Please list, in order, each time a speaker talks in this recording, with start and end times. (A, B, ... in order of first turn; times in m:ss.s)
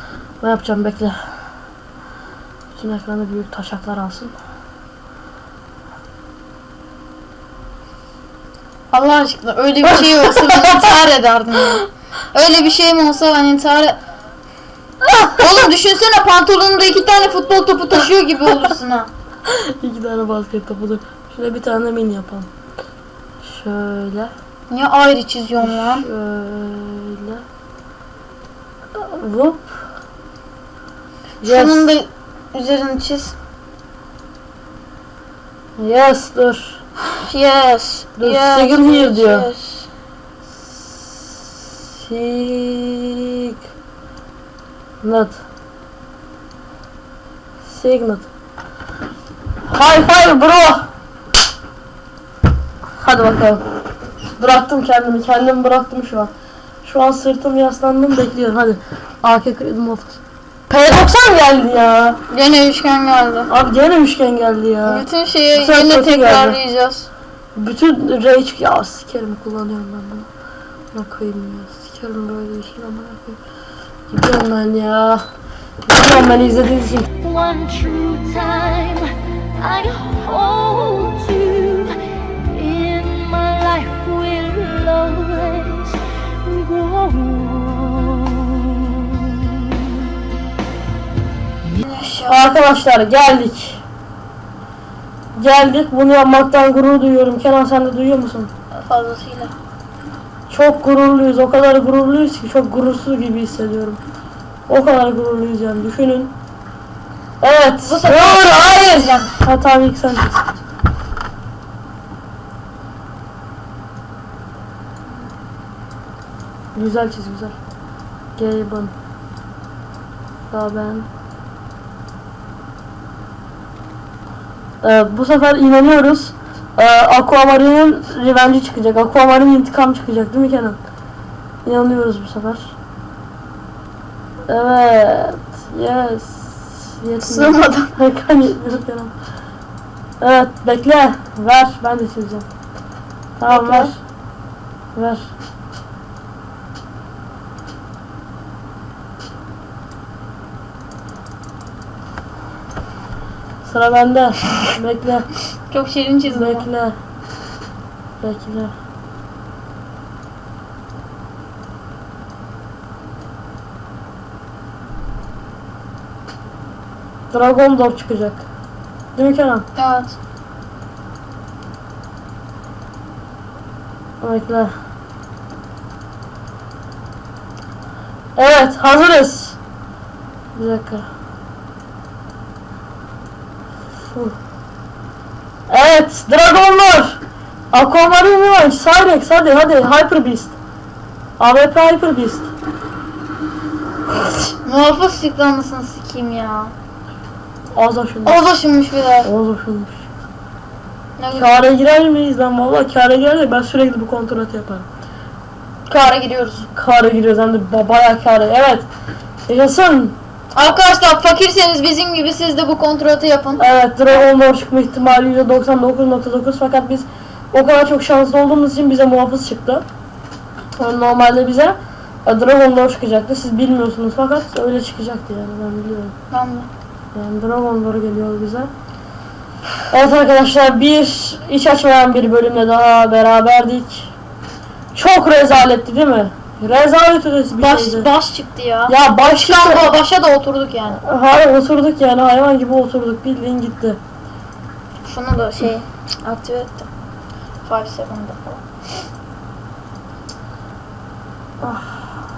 0:00.4-0:01.1 A
0:02.7-0:04.3 A
0:08.9-0:14.0 B
0:10.0-0:10.4 A
0:15.0-0:15.4 A
0:15.4-0:19.1 B
0:19.5-0:22.5 A
0:23.4-0:24.3 A
0:24.7-0:26.1 B
0:25.6-0:27.4 A
0:29.0-0:29.7 A
0:31.4-0:31.9 A
0:31.4-0:33.3 B
0:35.8-0:36.8 A
0:37.1-0:39.9 B
0:38.2-0:39.5 A
0:40.6-0:43.5 A
0:45.0-0:45.4 A
0:47.6-0:48.3 A
0:49.7-0:50.9 A
0:53.0-0:53.6 A
0:54.4-0:56.3 A
0:56.8-1:00.2 A
1:00.7-1:02.2 A
1:02.3-1:03.5 B
1:03.5-1:06.6 A
1:04.8-1:07.1 B
1:07.5-1:10.3 A
1:10.9-1:13.4 A
1:14.1-1:15.2 A
1:15.8-1:17.1 A
1:17.2-1:22.0 C
1:22.5-1:29.6 C
1:31.8-1:32.4 B
1:32.2-1:33.8 A
1:35.4-1:38.5 A
1:38.7-1:39.5 B
1:40.5-1:44.0 A
1:44.7-1:46.3 A
1:47.4-1:50.4 A
1:47.8-1:49.3 B
1:56.7-1:57.6 A
1:58.4-1:58.9 A
2:00.5-2:01.1 A
2:04.8-2:10.8 A
2:11.6-2:12.7 A
2:14.5-2:19.1 A
2:17.2-2:17.9 B
2:20.2-2:22.5 A
2:23.4-2:24.0 A
2:23.5-2:23.9 B
2:24.9-2:25.3 A
2:33.6-2:35.3 A
2:35.7-2:36.7 B
2:36.3-2:36.9 A
2:38.2-2:38.7 A
2:47.3-2:48.4 A
2:49.1-2:49.6 A
2:49.8-2:50.2 B
2:54.2-2:54.7 A
2:58.4-2:59.6 A
3:00.5-3:01.0 A
3:04.0-3:04.4 A
3:05.7-3:07.2 A
3:07.7-3:10.6 A
3:11.4-3:12.5 A
3:14.6-3:16.7 B
3:17.7-3:18.5 A
3:18.2-3:19.3 B
3:19.2-3:20.0 A
3:21.2-3:21.6 B
3:21.3-3:24.9 A
3:25.9-3:26.7 B
3:26.7-3:28.9 A
3:29.5-3:30.2 A
3:30.5-3:33.6 B
3:33.6-3:39.8 A
3:40.8-3:46.1 A
3:46.3-3:46.7 B
3:47.1-3:48.7 A
3:49.9-3:54.1 A
3:54.9-3:58.1 A
3:57.6-4:01.0 B
3:58.9-3:59.9 A
4:01.0-4:04.0 A
4:05.0-4:06.9 B
4:07.6-4:08.6 B
4:11.6-4:12.1 A